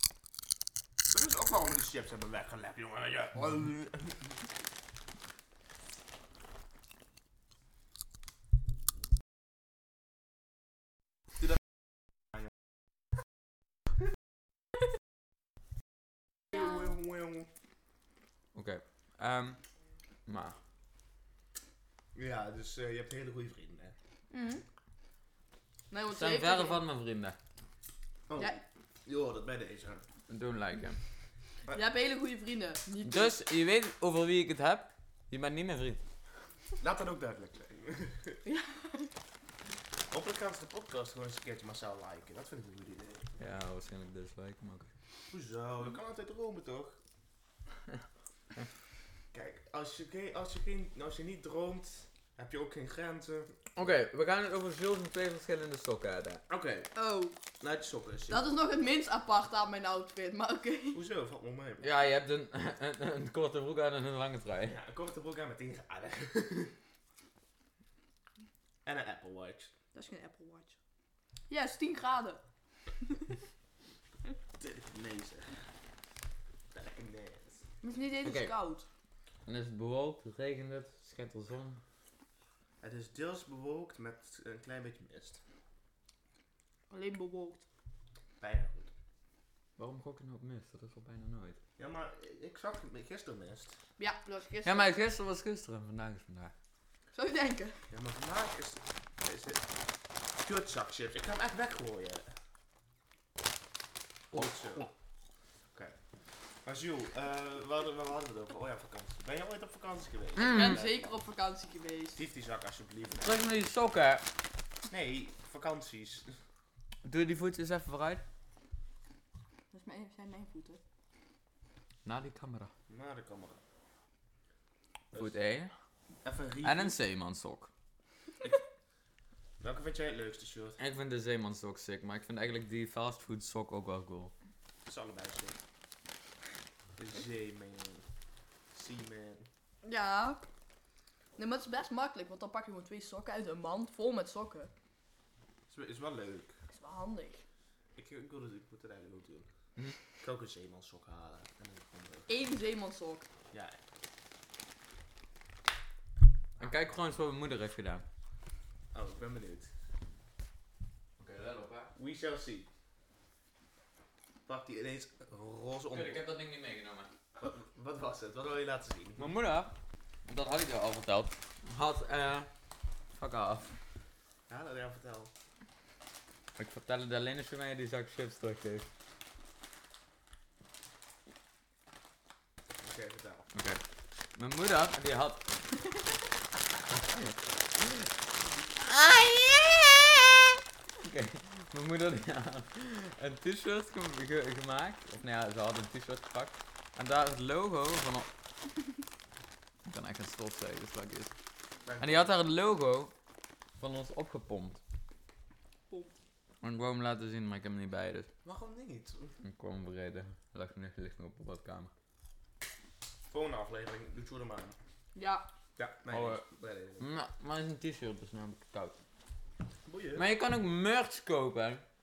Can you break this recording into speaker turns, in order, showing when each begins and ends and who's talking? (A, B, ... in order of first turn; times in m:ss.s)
0:01.1-0:04.4 A
0:16.6-0:17.5 A
0:18.5-0:19.6 B
0:20.2-0:20.6 B
0:22.1-0:23.9 A
0:24.3-0:24.6 C
0:25.9-0:26.8 C
0:26.1-0:27.4 B
0:28.3-0:30.0 A
0:30.3-0:31.0 B
0:31.7-0:33.4 C
0:33.0-0:36.0 B
0:36.8-0:38.4 A
0:38.4-0:39.1 C
0:40.1-0:43.3 A
0:43.4-0:44.9 B
0:45.3-0:47.0 A
0:49.3-0:53.7 A
0:53.8-0:56.4 B
0:56.5-0:56.9 A
0:56.9-0:57.4 C
0:57.6-0:58.5 A
0:58.3-1:01.0 C
1:00.9-1:01.9 A
1:01.8-1:04.8 B
1:04.7-1:06.7 A
1:08.8-1:09.7 A
1:09.9-1:10.8 C
1:11.5-1:12.4 C
1:13.0-1:13.3 C
1:14.6-1:15.6 A
1:16.7-1:17.6 A
1:17.8-1:18.8 C
1:18.2-1:18.5 B
1:19.4-1:21.8 B
1:22.8-1:25.4 A
1:26.9-1:27.6 C
1:28.4-1:28.9 A
1:29.8-1:31.6 B
1:31.8-1:33.8 A
1:34.0-1:34.9 C
1:34.6-1:36.5 B
1:37.1-1:37.8 C
1:37.9-1:39.7 A
1:40.4-1:42.3 A
1:44.3-1:44.9 A
1:46.6-1:51.2 A
1:50.4-1:50.8 B
1:50.4-1:52.2 C
1:52.2-1:53.4 A
1:53.2-1:54.2 B
1:54.9-1:56.4 A
1:57.0-1:58.2 B
1:59.7-2:00.8 C
2:02.0-2:02.7 B
2:02.9-2:03.6 A
2:05.1-2:05.7 B
2:06.2-2:07.0 A
2:06.6-2:07.7 B
2:09.6-2:10.8 A
2:10.8-2:14.3 B
2:14.8-2:15.6 A
2:17.0-2:18.0 A
2:18.7-2:19.5 A
2:19.8-2:20.4 C
2:21.4-2:24.7 C
2:25.7-2:26.5 A
2:26.7-2:27.4 C
2:28.0-2:29.5 A
2:30.2-2:32.3 A
2:32.3-2:33.3 C
2:33.5-2:33.8 A
2:36.6-2:38.0 B
2:38.9-2:39.7 A
2:41.2-2:41.9 B
2:41.9-2:42.7 A
2:44.5-2:46.2 A
2:45.9-2:47.1 B
2:47.4-2:49.3 A
2:49.2-2:49.7 B
2:50.2-2:52.5 B
2:53.1-2:53.7 B
2:54.5-2:55.3 A
2:56.6-2:58.9 B
3:02.8-3:03.5 A
3:03.5-3:03.8 B
3:04.3-3:05.6 B
3:07.0-3:08.1 B
3:08.7-3:18.3 B
3:19.8-3:21.3 B
3:21.8-3:22.4 A
3:22.0-3:23.1 B
3:23.8-3:24.8 B
3:26.6-3:28.3 B
3:28.4-3:29.3 A
3:29.4-3:31.9 B
3:33.3-3:34.8 A
3:35.1-3:35.5 C
3:35.8-3:37.0 A
3:36.1-3:36.4 B
3:37.0-3:38.9 B
3:39.9-3:40.3 A
3:40.2-3:41.8 B